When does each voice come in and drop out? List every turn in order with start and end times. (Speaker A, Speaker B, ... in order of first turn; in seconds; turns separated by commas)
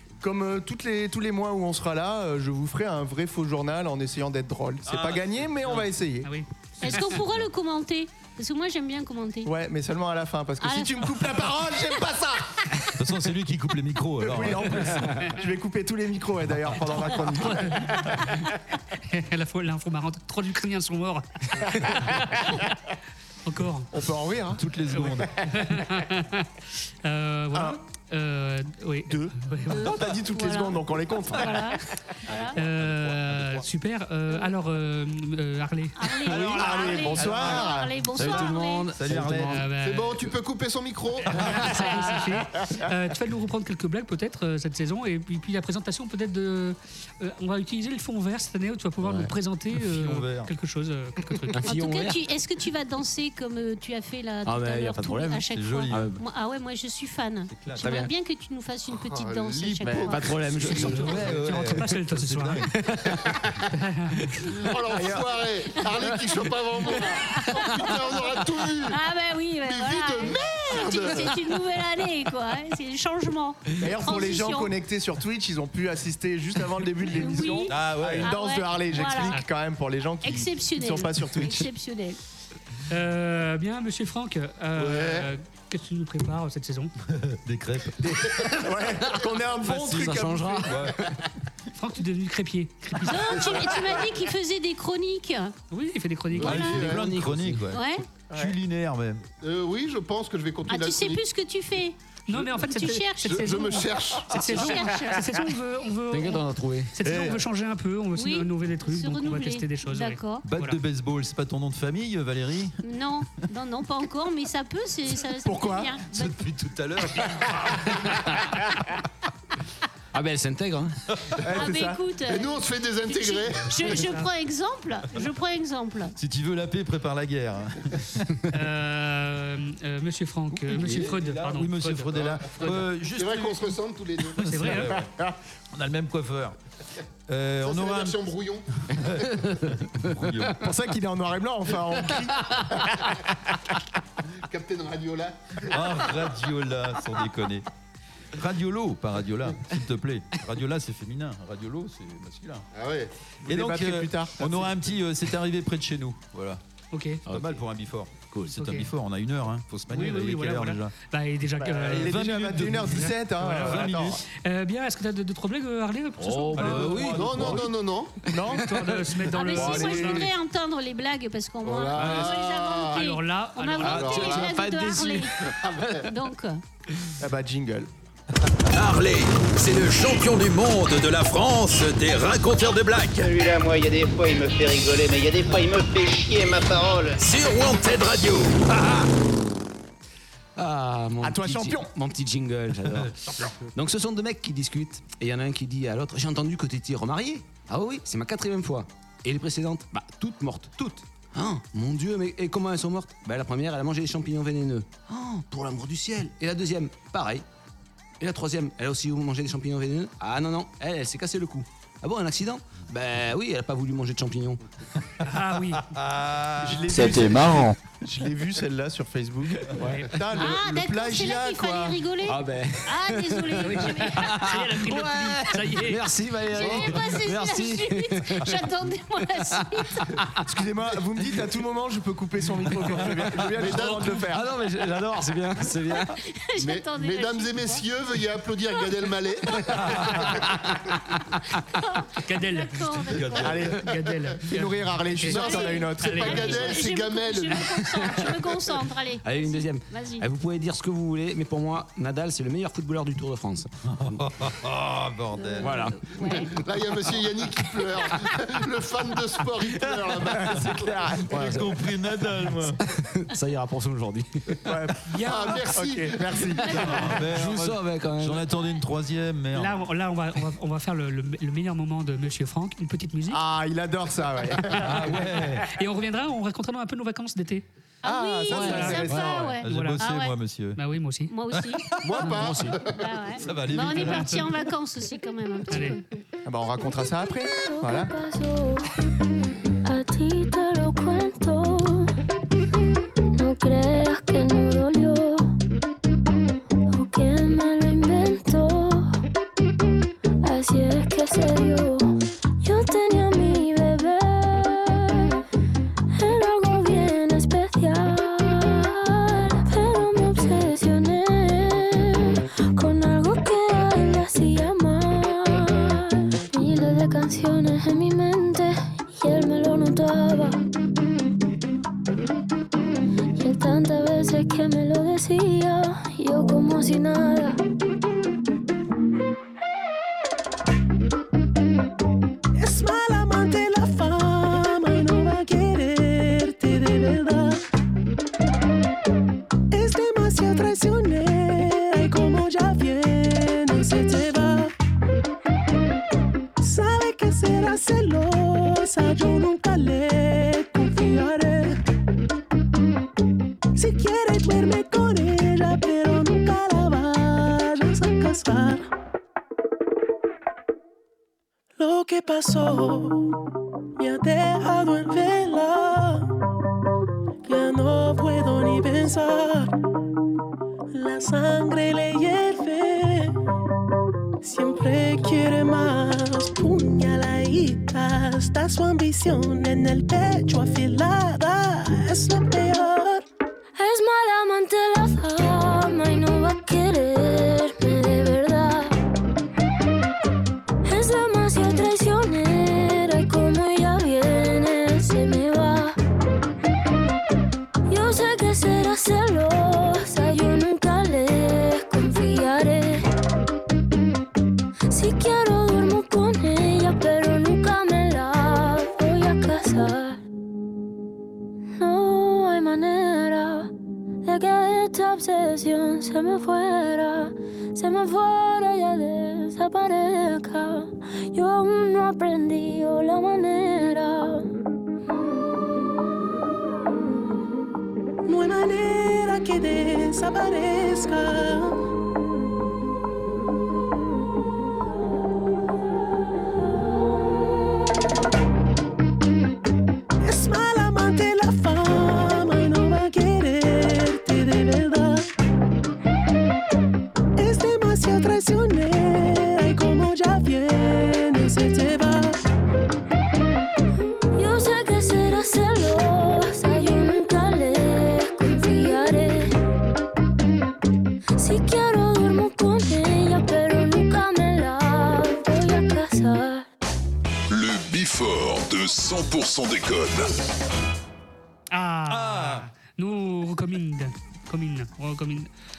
Speaker A: 0.2-6.3, Speaker B: 4.9-5.4, Speaker C: 6.2-7.1, Speaker D: 6.8-9.5, Speaker A: 9.4-12.6, Speaker D: 10.6-11.4, Speaker B: 13.0-14.8, Speaker A: 14.2-17.9, Speaker C: 17.1-22.7, Speaker C: 23.4-23.9, Speaker A: 23.9-24.6, Speaker B: 24.6-25.3, Speaker C: 24.9-26.5, Speaker C: 27.0-29.9, Speaker A: 29.1-31.7, Speaker D: 30.3-32.6, Speaker C: 32.5-36.1, Speaker B: 32.9-33.6, Speaker D: 36.0-38.9, Speaker A: 36.4-38.0, Speaker B: 36.4-39.6, Speaker E: 38.1-39.7, Speaker C: 39.5-40.2, Speaker F: 39.8-41.9, Speaker C: 41.3-51.7, Speaker E: 49.0-49.3, Speaker B: 49.8-50.5, Speaker E: 51.5-52.2, Speaker D: 51.6-60.8, Speaker E: 54.5-56.2, Speaker B: 55.5-56.1, Speaker B: 57.5-57.9, Speaker E: 57.8-58.1, Speaker F: 58.9-61.2, Speaker E: 59.9-61.9, Speaker C: 60.7-62.6, Speaker B: 60.9-62.7, Speaker E: 62.7-63.2, Speaker C: 63.7-64.5, Speaker F: 64.5-69.0, Speaker E: 65.0-65.2, Speaker D: 66.9-74.7, Speaker F: 69.7-71.5, Speaker A: 73.8-81.7, Speaker D: 77.1-79.4, Speaker B: 77.7-78.3, Speaker D: 80.2-82.2, Speaker C: 82.9-86.9, Speaker F: 84.8-85.1, Speaker B: 87.1-88.2, Speaker A: 88.1-90.7, Speaker B: 89.7-91.0, Speaker E: 89.7-91.2, Speaker C: 91.8-93.5, Speaker D: 93.0-95.5, Speaker C: 95.7-96.8, Speaker B: 96.4-99.2, Speaker F: 96.4-97.1, Speaker E: 96.5-97.7, Speaker D: 97.7-98.0, Speaker A: 98.3-98.6, Speaker F: 99.4-101.2, Speaker D: 100.7-102.0, Speaker C: 102.3-110.8, Speaker D: 102.6-103.6, Speaker F: 103.2-104.4, Speaker D: 104.3-105.4, Speaker E: 106.1-106.9, Speaker A: 107.0-107.4, Speaker D: 108.2-110.5, Speaker B: 110.5-112.8, Speaker D: 112.8-116.4, Speaker A: 115.4-116.0, Speaker B: 116.1-117.6, Speaker E: 118.0-118.6, Speaker E: 120.1-121.0, Speaker A: 121.4-122.0, Speaker D: 121.5-126.2, Speaker F: 122.3-124.0, Speaker C: 123.9-124.3, Speaker B: 126.2-128.3, Speaker C: 128.5-132.8, Speaker B: 130.5-133.8, Speaker F: 132.6-135.0, Speaker B: 134.4-135.1, Speaker C: 134.4-134.9, Speaker B: 135.7-136.6, Speaker B: 137.3-138.2, Speaker F: 137.6-138.7, Speaker B: 139.0-140.6, Speaker E: 140.1-140.5, Speaker A: 140.6-142.7, Speaker F: 144.5-146.1, Speaker B: 145.7-147.7, Speaker B: 148.4-152.7, Speaker F: 152.7-153.1, Speaker A: 153.5-154.7, Speaker B: 153.5-156.6, Speaker C: 156.9-157.2, Speaker E: 157.3-157.6, Speaker B: 157.3-160.9, Speaker C: 158.6-158.9, Speaker C: 159.9-167.2, Speaker B: 161.7-164.2, Speaker A: 161.9-164.2, Speaker E: 166.2-167.6, Speaker B: 166.6-167.7, Speaker F: 167.1-168.2, Speaker A: 168.3-168.8, Speaker C: 168.5-170.3, Speaker D: 169.3-175.4, Speaker A: 169.5-170.3, Speaker F: 171.6-173.0, Speaker C: 172.9-174.4, Speaker E: 173.8-175.3, Speaker F: 173.9-174.5, Speaker F: 175.6-176.0, Speaker D: 176.0-176.6, Speaker A: 177.2-177.9, Speaker G: 178.8-181.2, Speaker H: 179.0-183.1, Speaker G: 181.8-183.1, Speaker I: 183.1-187.3, Speaker G: 187.2-188.1, Speaker H: 188.1-188.5, Speaker E: 188.7-189.1, Speaker E: 190.6-207.4, Speaker A: 191.2-191.9, Speaker E: 208.2-214.6, Speaker C: 215.2-215.9, Speaker B: 215.9-217.6, Speaker A: 216.6-222.0, Speaker E: 219.8-220.1, Speaker C: 219.8-220.1, Speaker D: 220.3-224.4, Speaker E: 222.2-228.6, Speaker C: 223.6-226.0, Speaker D: 226.5-230.1, Speaker A: 230.5-234.5, Speaker F: 233.6-234.2, Speaker E: 233.6-236.1, Speaker D: 235.9-237.8, Speaker F: 236.6-240.2, Speaker D: 239.5-239.8, Speaker B: 239.8-240.3, Speaker D: 241.7-243.7, Speaker C: 242.2-243.0, Speaker B: 243.2-243.7, Speaker A: 243.4-243.8, Speaker C: 243.7-246.5, Speaker A: 244.5-246.8, Speaker D: 245.3-250.2, Speaker F: 245.3-248.1, Speaker E: 249.2-254.2, Speaker B: 253.9-255.9, Speaker D: 255.3-256.5, Speaker E: 255.6-256.0, Speaker F: 256.5-260.9, Speaker B: 259.7-260.8, Speaker A: 260.3-261.6, Speaker E: 261.3-261.9, Speaker B: 261.3-262.8, Speaker E: 262.4-264.6, Speaker A: 264.6-267.1, Speaker E: 265.1-265.5, Speaker F: 265.2-266.7, Speaker D: 266.6-267.0, Speaker B: 266.7-269.8, Speaker E: 267.2-268.5, Speaker C: 269.5-273.4, Speaker A: 273.3-275.0, Speaker C: 274.7-275.0, Speaker B: 274.8-275.7, Speaker C: 275.6-277.6, Speaker D: 278.0-280.3, Speaker A: 278.0-279.4, Speaker E: 278.5-279.4, Speaker C: 278.5-279.1, Speaker B: 279.1-280.8, Speaker C: 279.6-280.0, Speaker C: 280.8-281.3, Speaker D: 281.3-282.3, Speaker B: 281.6-282.0, Speaker F: 282.0-283.4, Speaker E: 282.3-282.8, Speaker D: 282.9-286.0, Speaker B: 283.4-284.5, Speaker C: 283.9-284.4, Speaker C: 285.7-286.0, Speaker A: 286.4-288.1, Speaker J: 287.5-288.9, Speaker J: 289.9-292.1, Speaker J: 293.4-295.5, Speaker J: 296.9-299.1, Speaker J: 300.4-302.1, Speaker J: 302.6-305.2, Speaker J: 306.1-320.6, Speaker J: 323.4-327.6, Speaker K: 332.6-337.6, Speaker K: 339.7-344.7, Speaker K: 346.6-351.8, Speaker K: 353.8-358.9, Speaker K: 361.8-363.3, Speaker K: 364.0-366.3, Speaker K: 367.4-369.7, Speaker K: 370.9-373.4, Speaker K: 374.4-383.2, Speaker J: 383.8-388.9, Speaker J: 390.8-396.0, Speaker J: 397.9-403.1, Speaker J: 404.9-410.2, Speaker J: 411.8-413.7, Speaker J: 414.2-424.5, Speaker K: 428.3-431.8, Speaker K: 440.2-445.3, Speaker K: 447.4-452.4, Speaker J: 454.4-459.5, Speaker J: 461.4-466.7, Speaker H: 467.5-470.4, Speaker C: 471.7-475.5, Speaker B: 472.1-472.7